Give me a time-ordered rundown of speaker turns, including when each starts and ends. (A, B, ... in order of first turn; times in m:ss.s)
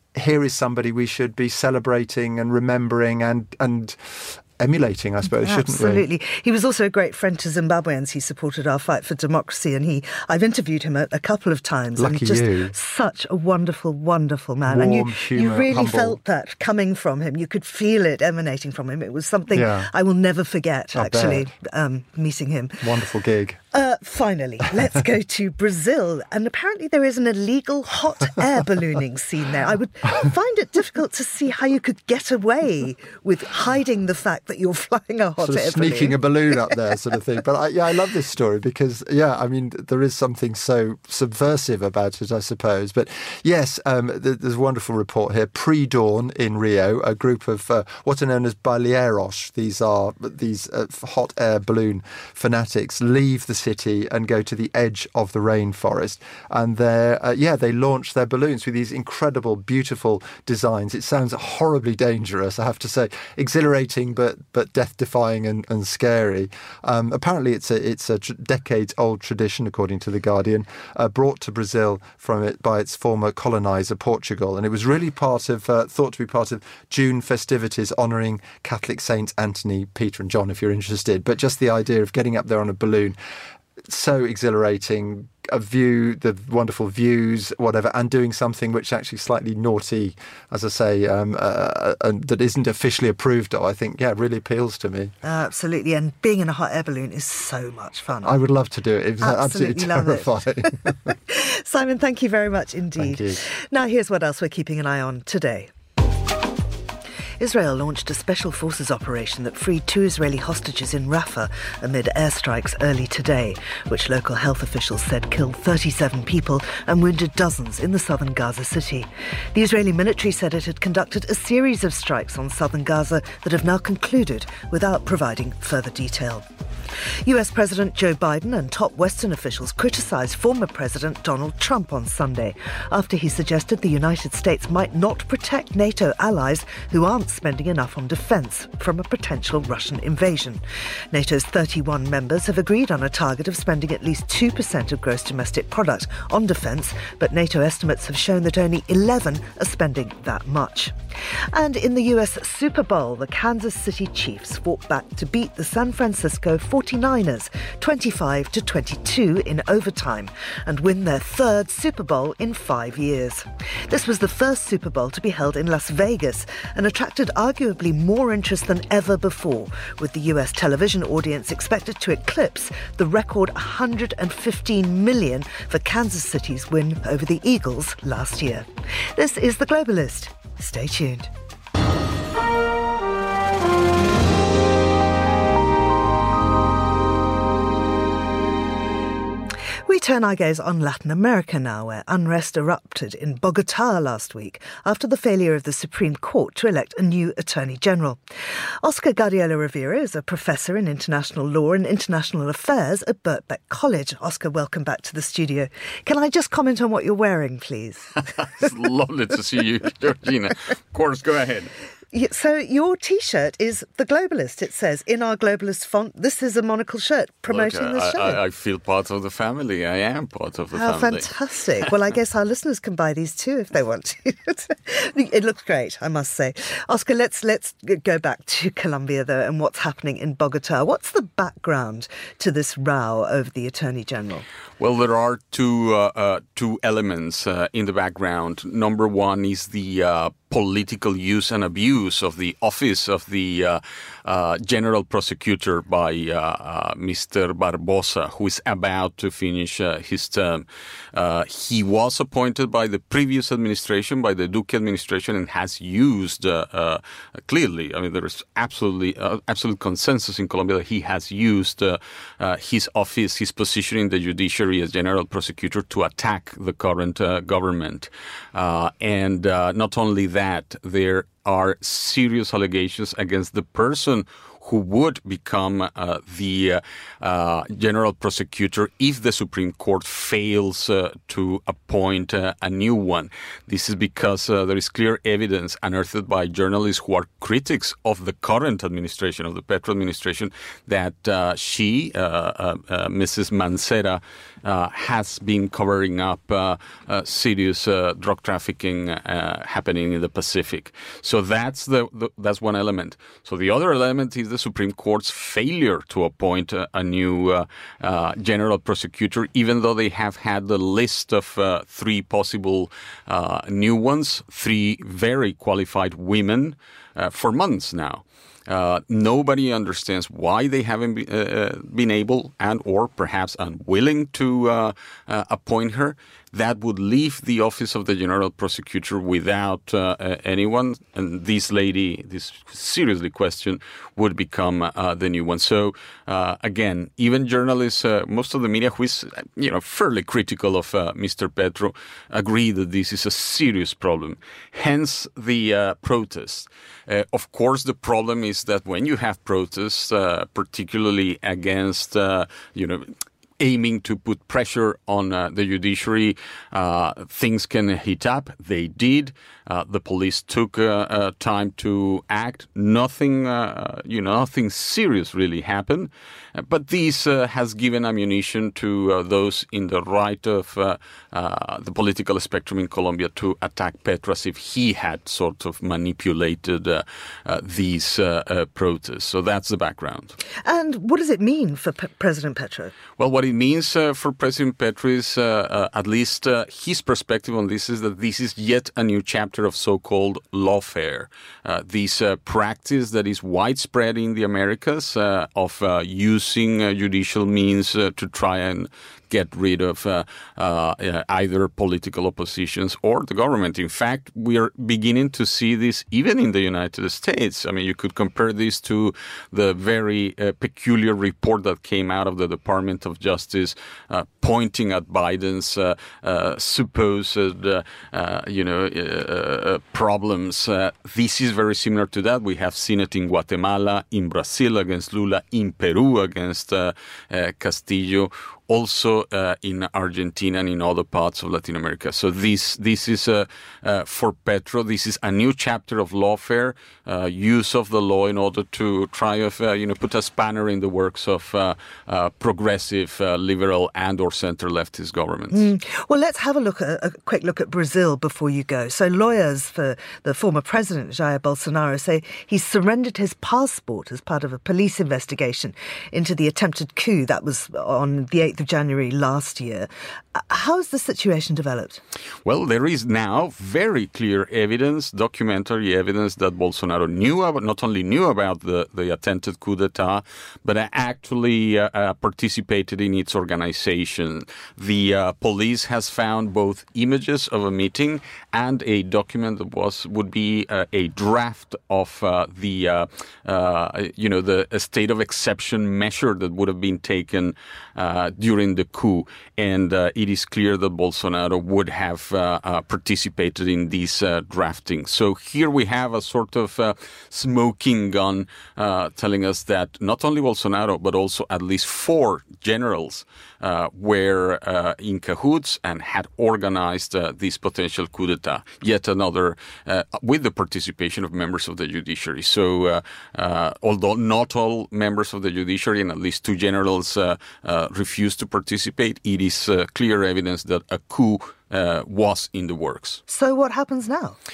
0:00.1-0:06.0 A
0:05.4-0:22.9 B
0:12.0-0:12.7 A
0:14.6-0:16.2 A
0:19.5-0:19.9 A
0:20.9-0:21.5 A
0:22.8-0:23.6 A
0:23.7-0:36.2 B
0:35.4-1:23.2 A
1:23.9-1:35.1 A
1:35.2-1:38.4 B
1:38.2-1:41.1 A
1:39.2-1:45.7 B
1:43.0-1:43.4 A
1:47.4-2:06.4 B
2:07.2-2:30.9 B
2:31.5-3:01.3 B
3:09.8-3:18.2 B
3:18.8-3:28.1 B
3:28.4-3:31.7 C
3:32.1-3:38.4 B
3:37.5-3:41.3 C
3:40.7-3:54.4 B
3:54.8-6:20.4 C
6:20.6-6:22.9 B
6:23.2-7:25.6 C
7:25.5-7:42.0 B
7:42.4-8:43.2 C
8:43.3-8:44.4 B